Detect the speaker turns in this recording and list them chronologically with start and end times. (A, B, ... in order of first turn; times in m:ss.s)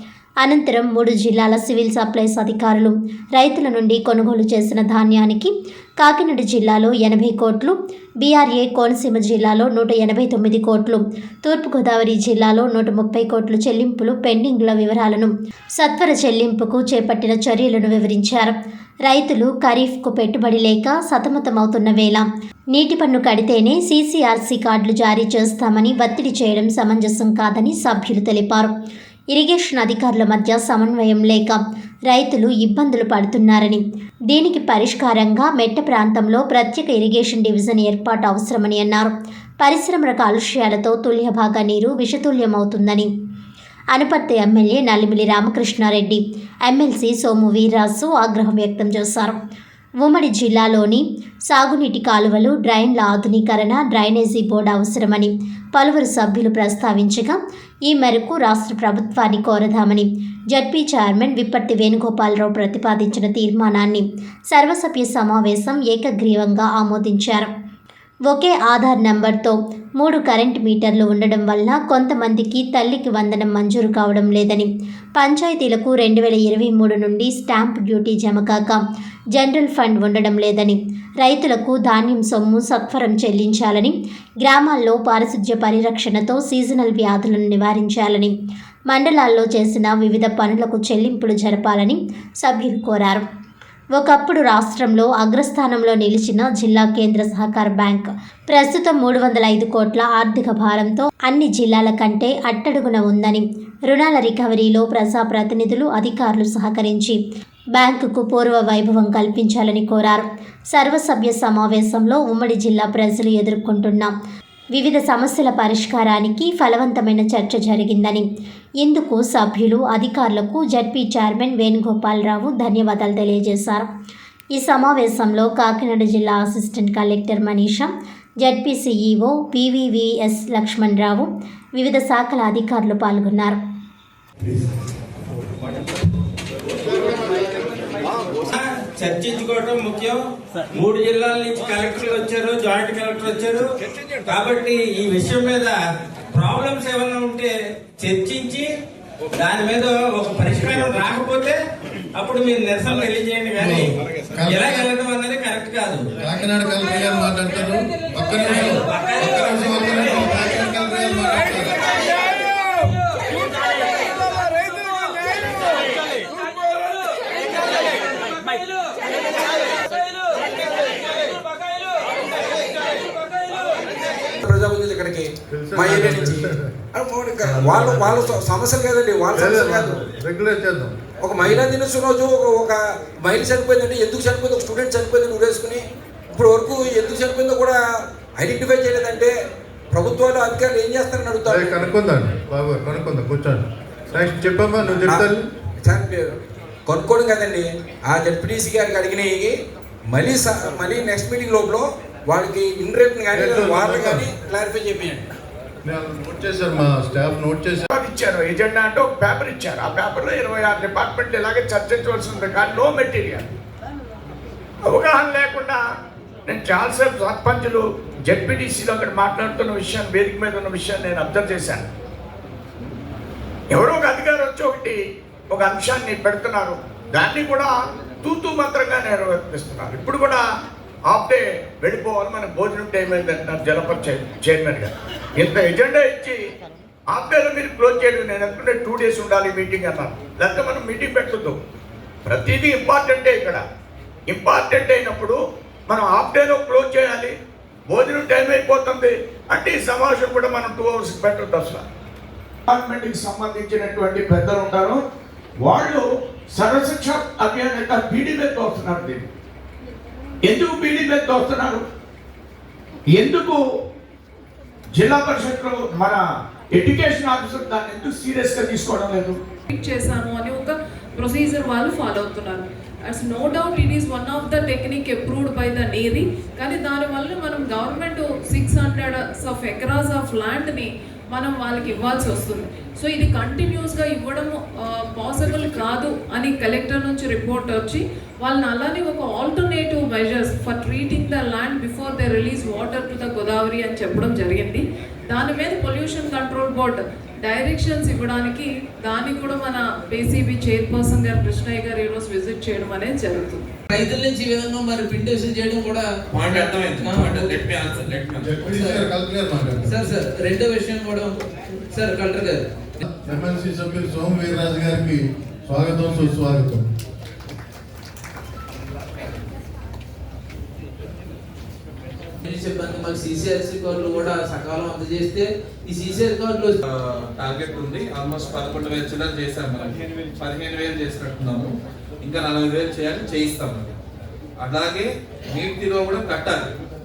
0:00.4-0:18.5 A
0:19.0-0:28.7 A
0:29.3-0:43.1 A
0:43.9-0:49.4 A
0:50.0-1:07.5 A
1:08.3-1:18.8 A
1:19.3-1:28.3 A
1:28.9-1:33.2 A
1:33.9-1:47.2 A
1:47.8-1:54.1 A
1:54.7-1:58.3 A
1:58.8-2:03.9 A
2:04.5-2:13.6 A
2:16.9-2:17.4 B
2:18.3-2:20.2 B
2:20.7-2:23.7 B
2:24.2-2:25.8 B
2:26.3-2:28.7 B
2:29.3-2:31.6 B
2:32.2-2:36.1 B
2:33.6-2:34.9 C
2:36.2-2:41.8 C
2:38.4-2:40.3 B
2:54.4-3:00.0 D
2:55.5-2:56.8 C
2:57.4-2:58.2 C
2:59.3-3:01.7 C
3:01.2-3:05.8 D
3:06.3-3:07.8 D
3:08.4-3:09.3 D
3:09.9-3:11.9 D
3:11.4-3:15.4 C
3:15.8-3:19.5 D
3:20.1-3:25.3 D
3:23.3-3:24.3 C
3:25.8-3:27.9 C
3:27.9-3:33.5 E
3:34.9-3:35.8 E
3:36.5-3:41.9 E
3:43.7-3:45.0 E
3:45.5-3:47.7 E
3:48.2-3:50.4 E
3:51.1-3:56.4 E
3:57.1-4:01.6 E
4:02.2-4:03.6 E
4:04.3-4:07.3 E
4:07.9-4:11.8 E
4:12.7-4:15.0 E
4:15.6-4:19.3 E
4:20.4-4:21.8 E
4:23.2-4:23.6 E
4:24.9-4:26.2 E
4:26.7-4:29.4 E
4:29.7-5:03.6 F
5:03.9-5:07.6 G
5:06.3-5:08.7 H
5:08.4-5:10.0 C
5:08.7-5:09.1 G
5:09.8-5:12.7 G
5:13.0-5:16.8 C
5:22.4-5:26.8 G
5:26.9-5:31.7 H
5:32.2-5:33.9 H
5:34.6-5:36.6 H